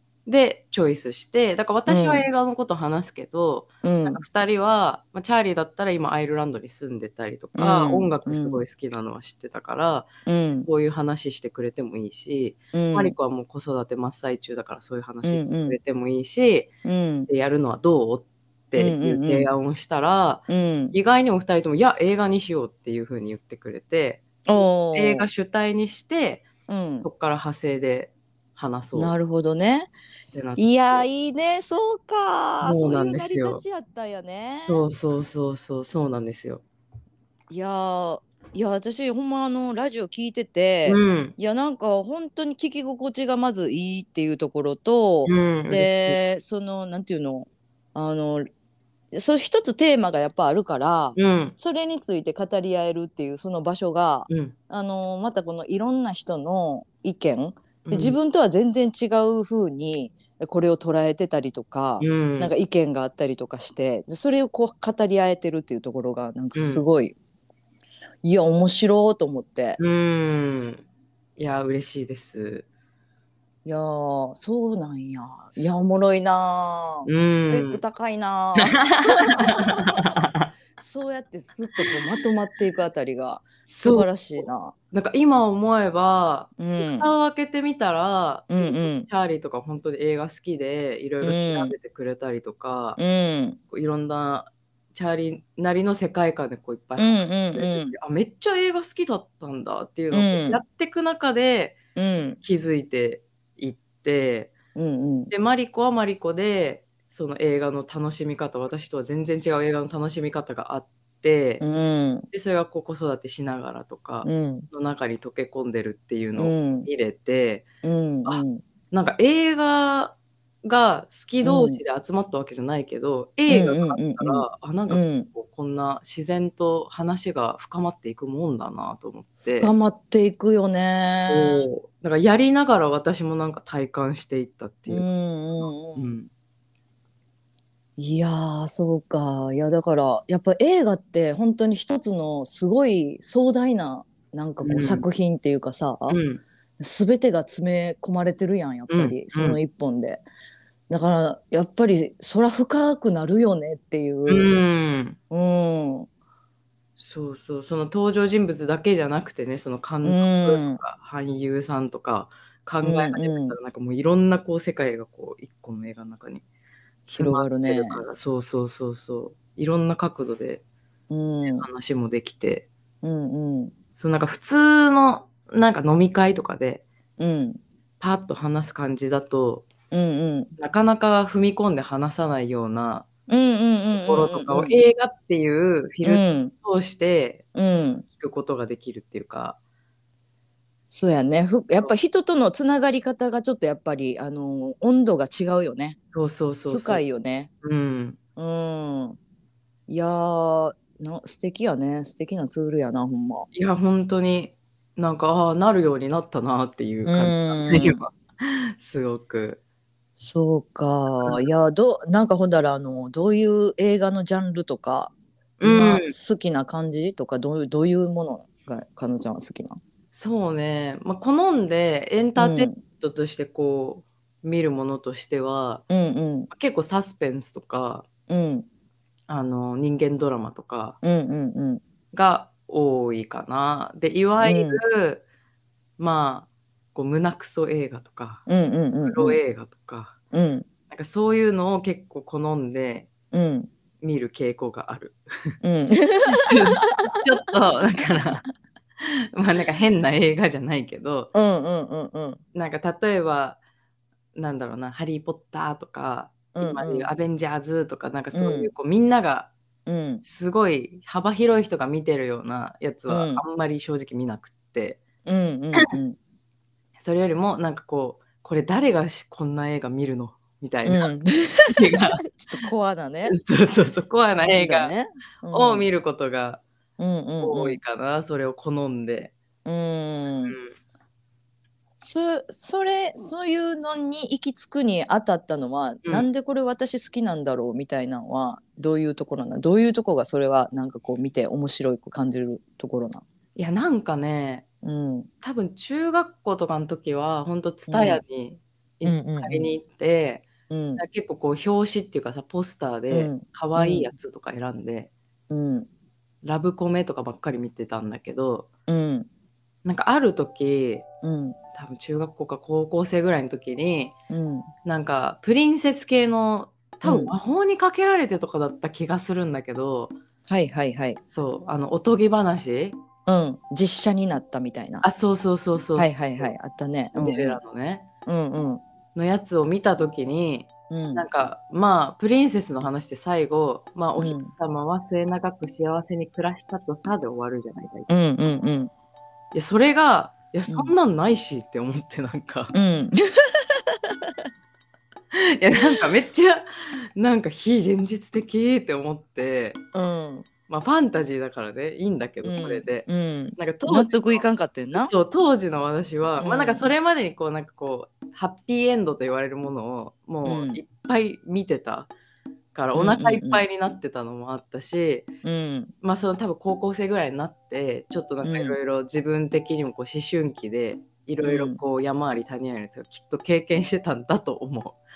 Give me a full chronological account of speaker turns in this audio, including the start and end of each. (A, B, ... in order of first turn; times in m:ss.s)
0:00.3-0:16.7 A
0:01.9-0:02.3 B
0:03.8-0:04.2 B
0:07.6-0:08.6 B
0:10.3-0:10.7 B
0:12.7-0:13.2 B
0:15.2-0:15.8 B
0:16.8-0:17.3 B
0:17.3-0:26.5 A
0:18.8-0:19.5 B
0:20.5-0:21.0 B
0:24.5-0:25.3 B
0:26.7-0:27.1 B
0:27.0-0:29.2 A
0:29.0-0:29.9 B
0:30.3-0:31.0 A
0:30.6-0:34.8 B
0:32.6-0:33.6 A
0:34.7-0:36.6 A
0:37.5-0:48.5 B
0:40.9-0:41.4 A
0:45.2-0:46.2 A
0:49.1-1:07.2 B
0:51.2-0:51.6 A
0:54.3-0:54.6 A
0:57.8-0:58.2 A
1:02.0-1:02.5 A
1:06.6-1:06.8 A
1:08.2-1:09.8 B
1:09.8-1:10.8 A
1:11.4-1:12.7 A
1:13.6-1:20.1 B
1:17.1-1:17.8 A
1:18.7-1:20.5 A
1:20.8-1:24.8 B
1:23.7-1:33.0 A
1:26.6-1:27.1 B
1:28.5-1:29.1 B
1:31.2-1:31.8 B
1:33.0-1:33.6 B
1:33.7-1:41.8 A
1:37.0-1:37.9 B
1:40.1-1:40.6 B
1:42.0-1:42.4 B
1:42.4-1:44.5 A
1:44.8-1:45.3 B
1:45.3-1:51.6 A
1:51.6-1:52.3 B
1:52.3-1:57.6 A
1:54.2-1:54.7 B
1:56.4-1:56.9 B
1:57.8-1:58.6 B
1:58.2-2:09.7 A
2:01.4-2:01.8 B
2:03.5-2:05.3 B
2:09.6-2:11.7 B
2:11.3-2:15.1 A
2:14.9-2:16.2 B
2:15.6-2:16.3 A
2:18.0-2:26.2 B
2:24.6-2:25.0 A
2:26.1-2:26.4 A
2:26.8-2:30.2 B
2:28.9-2:29.6 A
2:30.9-2:34.6 B
2:34.3-2:35.2 A
2:35.3-2:36.1 B
2:37.0-2:46.4 A
2:40.0-2:40.8 B
2:42.8-2:43.6 B
2:47.1-2:50.6 A
2:47.2-2:48.0 B
2:51.1-2:51.7 B
2:51.4-2:52.7 A
2:53.0-2:53.7 B
2:53.9-2:56.8 A
2:57.2-2:57.6 B
2:58.0-2:59.7 A
2:59.9-3:00.6 B
3:00.6-3:03.1 A
3:03.3-3:04.8 B
3:04.0-3:07.4 A
3:06.0-3:06.5 B
3:07.6-3:08.0 B
3:08.1-3:09.6 A
3:10.9-3:16.0 B
3:16.1-3:17.1 A
3:16.7-3:17.5 B
3:17.6-3:18.2 A
3:18.4-3:19.2 B
3:19.9-3:23.5 B
3:23.5-3:29.6 A
3:27.0-3:28.0 B
3:30.2-3:39.8 B
3:35.6-3:36.1 A
3:40.1-3:45.8 A
3:42.4-3:42.8 B
3:45.9-3:46.5 B
3:46.5-3:48.1 A
3:48.3-3:48.7 B
3:49.3-3:51.0 A
3:51.0-3:51.8 B
3:52.1-3:55.2 A
3:54.4-3:54.8 B
3:56.0-3:58.5 A
3:58.5-3:59.4 B
3:59.0-4:00.2 A
4:00.3-4:00.7 B
4:00.9-4:03.1 A
4:03.3-4:03.7 B
4:04.0-4:05.6 A
4:05.6-4:06.9 B
4:06.3-4:08.5 A
4:09.0-4:11.3 A
4:11.3-4:12.4 B
4:12.5-4:13.6 A
4:14.3-4:19.5 A
4:16.6-4:17.1 B
4:18.3-4:18.7 B
4:19.9-4:20.2 B
4:20.2-4:25.0 A
4:23.1-4:23.4 B
4:25.3-4:26.2 B
4:27.0-4:31.1 A
4:30.8-4:33.4 B
4:31.7-4:32.3 A
4:33.3-4:35.0 A
4:34.4-4:35.9 B
4:35.5-4:36.6 A
4:37.0-4:37.8 B
4:37.4-4:39.3 A
4:39.6-4:40.6 B
4:40.5-4:40.8 A
4:42.0-4:53.2 B
4:53.6-4:54.6 A
4:54.8-4:55.3 B
4:55.4-5:00.4 A
4:57.9-4:58.2 B
4:59.0-4:59.7 B
5:00.7-5:01.0 B
5:01.0-5:05.1 A
5:03.1-5:04.1 B
5:05.5-5:05.9 B
5:06.4-5:08.7 A
5:08.9-5:09.3 B
5:09.8-5:11.0 A
5:11.2-5:11.6 B
5:11.7-5:14.1 A
5:14.3-5:14.7 B
5:14.8-5:20.2 A
5:17.0-5:17.3 B
5:20.5-5:21.2 B
5:21.3-5:23.0 A
5:23.3-5:25.1 B
5:25.0-5:26.5 A
5:26.0-5:27.6 B
5:27.1-5:28.0 A
5:28.3-5:28.8 B
5:29.2-5:38.1 A
5:30.9-5:31.2 B
5:34.2-5:34.5 B
5:38.1-5:38.9 B
5:39.5-5:42.8 A
5:40.7-5:40.9 B
5:42.7-5:44.3 B
5:45.6-5:49.8 A
5:49.9-5:50.5 B
5:50.7-6:02.1 A
5:52.4-5:55.1 B
5:56.4-5:56.9 B
6:00.4-6:00.8 B
6:02.7-6:05.3 A
6:02.9-6:03.6 B
6:05.4-6:05.9 B
6:06.0-6:15.0 A
6:08.4-6:08.8 B
6:11.4-6:11.8 B